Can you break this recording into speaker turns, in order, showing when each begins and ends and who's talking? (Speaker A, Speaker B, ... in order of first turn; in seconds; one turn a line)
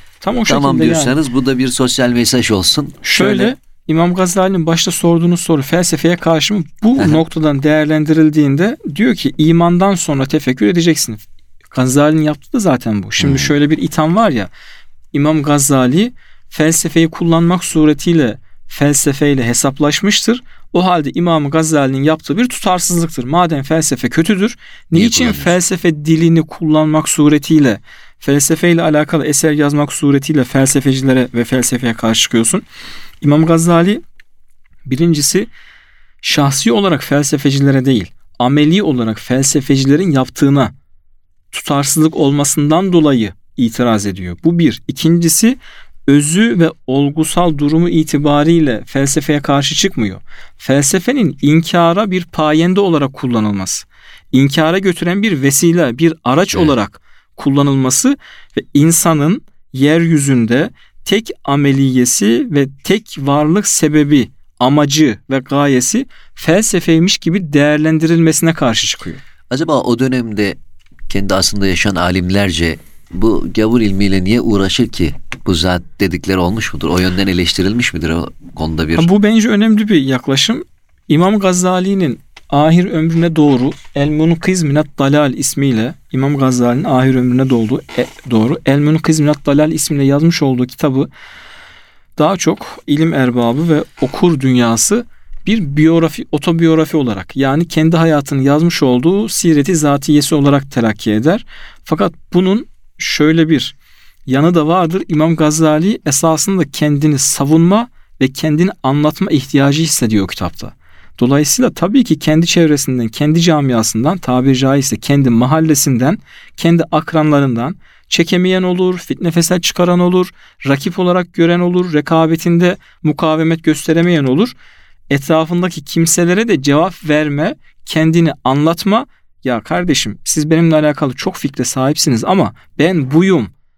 Speaker A: 0.2-1.2
Speaker B: 0.4-3.5
Speaker A: 3.0-14.5
Speaker B: 13.2-13.5
Speaker A: 15.1-32.6
Speaker B: 24.9-25.6
Speaker A: 33.2-34.0
Speaker A: 34.9-35.5
Speaker A: 36.2-40.7
Speaker A: 41.5-69.2
Speaker B: 69.5-70.6
Speaker B: 71.1-79.1
Speaker A: 79.0-91.1
Speaker A: 92.2-103.8
Speaker A: 104.3-124.5
Speaker A: 125.1-133.5